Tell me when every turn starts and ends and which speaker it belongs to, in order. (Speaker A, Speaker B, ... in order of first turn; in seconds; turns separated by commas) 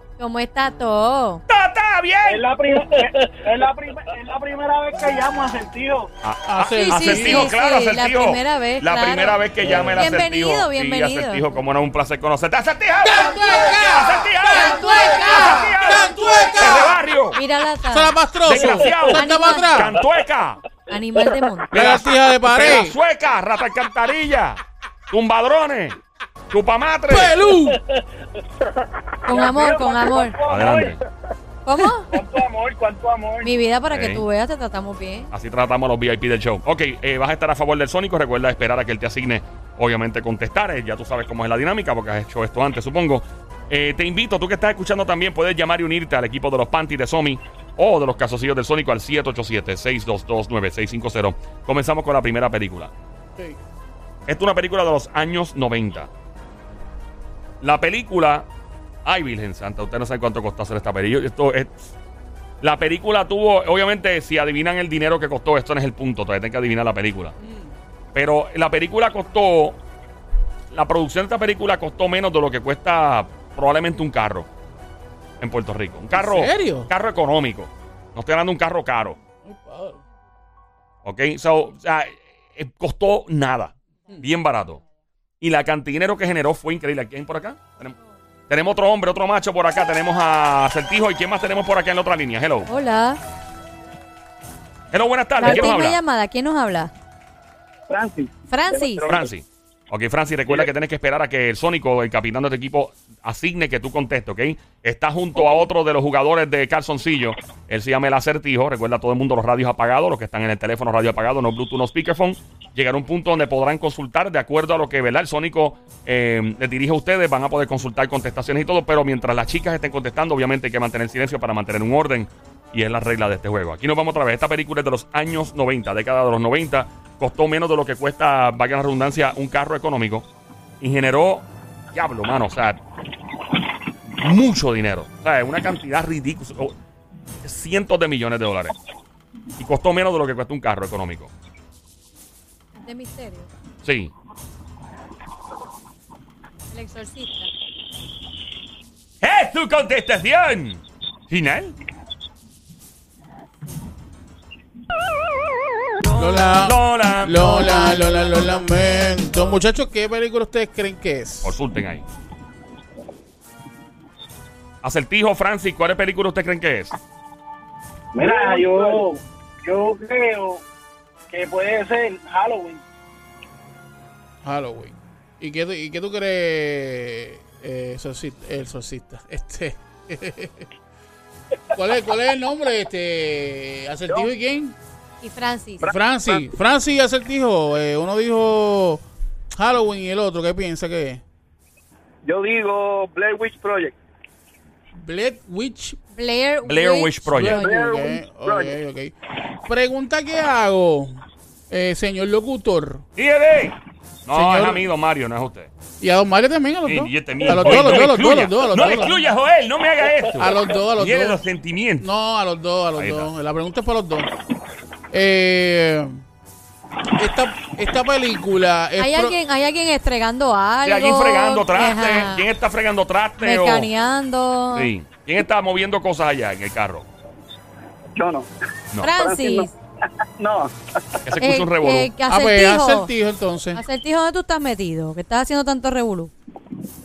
Speaker A: 0.2-1.4, Speaker B: 1.5-2.4, Speaker C: 2.2-6.1, Speaker B: 6.2-17.4, Speaker D: 6.4-7.5, Speaker A: 6.6-11.6, Speaker D: 13.0-17.0, Speaker A: 14.4-15.8, Speaker C: 15.9-16.5, Speaker A: 17.3-19.9, Speaker D: 17.9-20.0, Speaker B: 18.4-20.6, Speaker A: 20.9-21.8, Speaker B: 21.7-26.0, Speaker D: 21.7-22.9, Speaker B: 26.5-27.4, Speaker D: 27.1-27.8, Speaker A: 29.2-30.4, Speaker C: 29.3-31.0, Speaker B: 30.4-31.0, Speaker A: 31.6-32.1, Speaker C: 32.1-33.5, Speaker A: 33.4-35.3, Speaker B: 33.9-34.2, Speaker B: 35.3-52.9, Speaker B: 54.3-56.1, Speaker B: 57.6-58.5, Speaker B: 59.0-61.9, Speaker B: 62.6-67.3, Speaker D: 67.4-67.7, Speaker B: 68.1-69.8, Speaker B: 70.7-74.5, Speaker B: 75.4-79.2, Speaker D: 76.1-76.9, Speaker D: 79.4-80.0, Speaker B: 81.0-84.8, Speaker B: 85.4-87.9, Speaker B: 88.5-92.7, Speaker A: 92.7-93.2, Speaker B: 94.9-96.0, Speaker A: 95.4-96.9, Speaker E: 97.9-99.3, Speaker A: 98.5-99.1, Speaker B: 99.1-130.3, Speaker B: 130.8-132.8, Speaker B: 134.2-136.7, Speaker B: 137.4-138.7, Speaker B: 139.6-141.3, Speaker A: 142.8-143.5, Speaker B: 143.8-144.1, Speaker A: 146.7-147.5, Speaker B: 149.2-151.8, Speaker D: 156.1-161.6, Speaker B: 156.2-158.0, Speaker B: 161.4-162.1, Speaker B: 164.8-166.9, Speaker C: 168.1-170.6, Speaker C: 171.3-172.8, Speaker D: 174.4-180.7, Speaker D: 181.7-184.8, Speaker A: 185.2-185.9, Speaker E: 185.8-186.5, Speaker D: 185.8-189.0, Speaker D: 189.6-191.2, Speaker E: 192.2-193.9, Speaker D: 194.9-196.0, Speaker A: 196.1-197.2, Speaker B: 196.7-197.6, Speaker D: 197.2-199.1, Speaker E: 197.5-198.8, Speaker D: 199.6-201.1, Speaker D: 201.7-203.0, Speaker B: 203.2-205.7, Speaker D: 204.3-204.9, Speaker D: 206.0-209.2, Speaker B: 206.8-212.1, Speaker D: 210.3-211.4, Speaker D: 212.0-214.3, Speaker B: 213.0-213.3, Speaker D: 215.1-216.2, Speaker D: 217.2-219.4, Speaker A: 219.0-222.5, Speaker B: 220.8-223.9, Speaker A: 223.4-224.9, Speaker B: 224.7-227.1, Speaker E: 228.1-228.5, Speaker A: 229.0-229.8, Speaker E: 229.1-229.7, Speaker E: 230.4-230.7, Speaker B: 231.2-232.1, Speaker A: 231.4-233.1, Speaker D: 232.3-233.8, Speaker A: 233.7-236.3